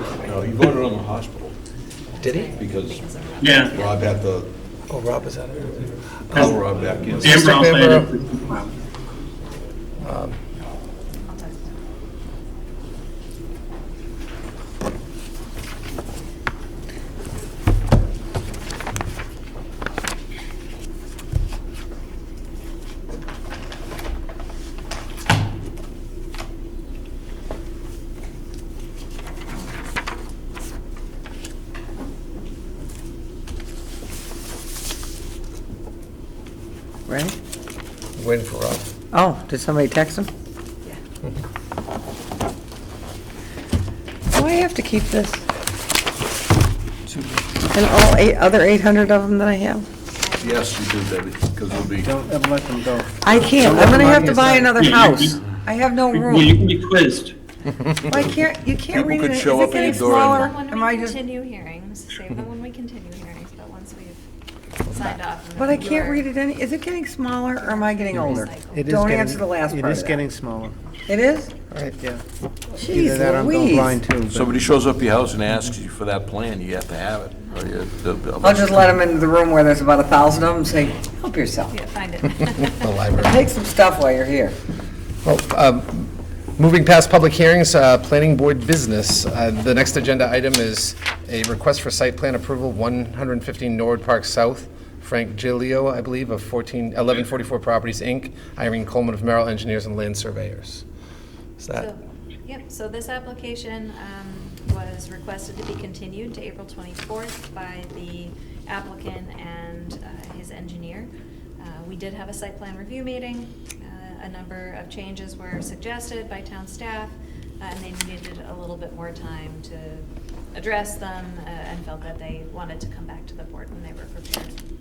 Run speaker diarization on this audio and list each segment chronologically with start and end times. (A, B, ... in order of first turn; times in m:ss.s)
0:00.2-0:01.5 A
0:02.2-0:04.1 B
0:02.2-0:02.5 C
0:02.6-0:03.0 A
0:03.4-0:03.7 D
0:03.7-0:04.5 A
0:04.9-0:06.5 C
0:06.3-0:07.4 A
0:07.2-0:08.1 C
0:07.2-0:08.7 D
0:10.0-0:10.4 C
0:11.3-0:11.6 B
0:37.1-0:37.4 E
0:38.2-0:38.8 C
0:39.1-0:40.3 E
0:44.3-0:45.4 E
0:47.1-0:47.4 C
0:47.7-0:49.8 E
0:50.2-0:50.7 B
0:50.4-0:52.1 A
0:52.0-0:54.7 F
0:53.2-0:56.6 E
0:54.7-0:55.4 D
0:56.1-0:57.3 D
0:58.1-1:01.2 E
0:58.9-1:00.5 A
0:59.6-1:04.2 B
1:04.8-1:05.2 C
1:04.9-1:06.2 B
1:05.6-1:10.2 E
1:07.6-1:08.8 B
1:08.1-1:10.8 F
1:11.1-1:11.5 E
1:11.7-1:12.0 C
1:12.8-1:14.0 E
1:12.8-1:14.6 F
1:14.3-1:19.0 A
1:18.4-1:21.7 E
1:21.7-1:23.0 B
1:22.7-1:23.4 C
1:23.2-1:24.6 E
1:25.2-1:40.8 C
1:41.6-1:41.9 C
1:41.7-2:04.5 B